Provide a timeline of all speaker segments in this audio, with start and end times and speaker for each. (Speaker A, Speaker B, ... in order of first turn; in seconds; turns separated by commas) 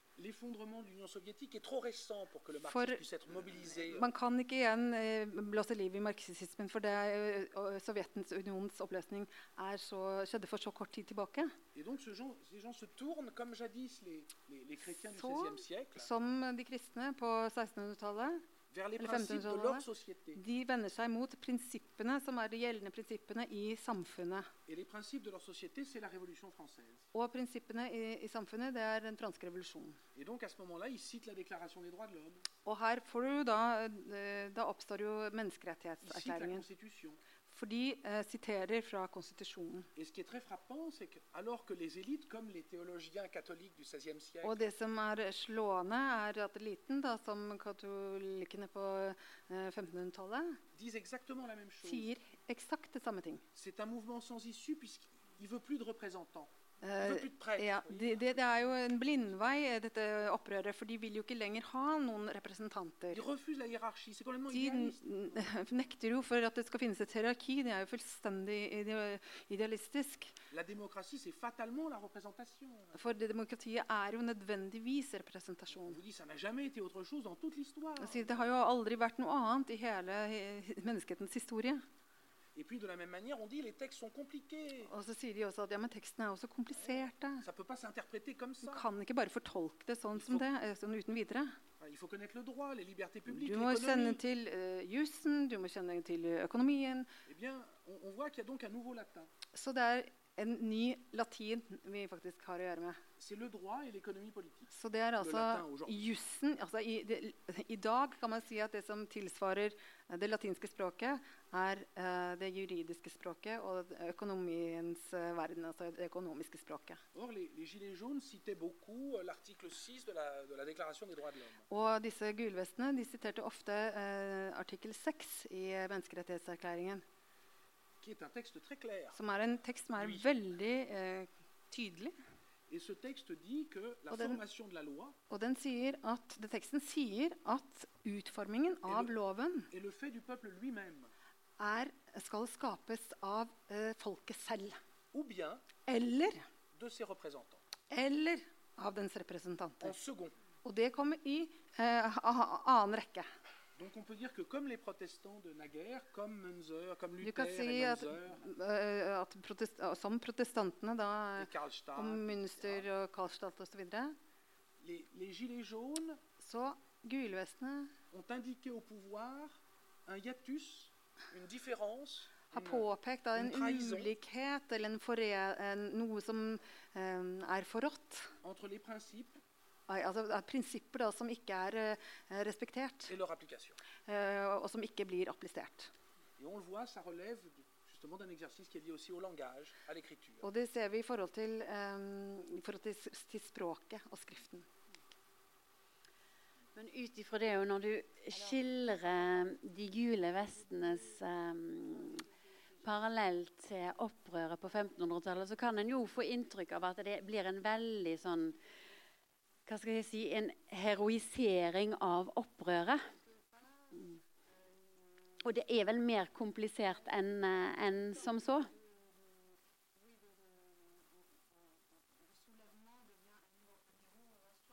Speaker A: 0.2-4.1, Speaker B: 2.7-3.0, Speaker B: 3.8-11.5, Speaker A: 11.8-16.1, Speaker B: 14.9-18.4, Speaker A: 18.7-20.4, Speaker B: 19.0-24.5, Speaker A: 24.7-27.1, Speaker B: 27.1-30.0, Speaker A: 30.1-32.5, Speaker B: 32.6-36.6, Speaker A: 36.0-37.2, Speaker B: 37.5-39.9, Speaker A: 40.0-44.6, Speaker B: 44.4-50.6, Speaker A: 50.7-52.1, Speaker B: 51.8-53.4, Speaker A: 53.5-59.2, Speaker B: 56.8-63.2, Speaker A: 63.1-65.0, Speaker B: 64.5-70.4, Speaker A: 70.5-73.0, Speaker B: 73.0-76.0, Speaker A: 75.7-78.5, Speaker B: 78.0-81.8, Speaker A: 82.5-84.9, Speaker B: 84.9-87.5, Speaker A: 86.9-88.9, Speaker B: 88.6-91.6, Speaker A: 90.2-90.5, Speaker A: 91.8-94.2, Speaker B: 93.3-97.1, Speaker A: 97.3-99.3, Speaker B: 99.5-103.0, Speaker A: 103.2-106.0, Speaker B: 104.7-117.0, Speaker A: 117.1-121.7, Speaker B: 121.7-127.0, Speaker A: 128.0-129.2, Speaker B: 129.1-132.2, Speaker A: 130.0-130.3, Speaker A: 132.7-135.2, Speaker B: 134.1-134.4, Speaker B: 135.3-139.7, Speaker A: 138.9-139.1, Speaker A: 139.7-141.1, Speaker B: 141.6-144.8, Speaker A: 145.1-145.6, Speaker B: 145.9-146.5, Speaker A: 146.8-147.6, Speaker B: 147.9-149.9, Speaker A: 149.8-150.3, Speaker B: 150.6-153.3, Speaker A: 153.8-158.4, Speaker B: 157.2-164.2, Speaker A: 161.4-162.9, Speaker A: 164.8-166.2, Speaker B: 166.4-167.9, Speaker A: 168.1-174.1, Speaker B: 172.5-178.4, Speaker A: 178.4-179.4, Speaker B: 179.9-183.1, Speaker A: 183.1-183.8, Speaker B: 184.1-185.9, Speaker A: 186.4-190.5, Speaker B: 190.4-194.7, Speaker C: 196.8-202.3, Speaker C: 202.8-208.6, Speaker C: 209.7-213.0, Speaker C: 215.4-218.7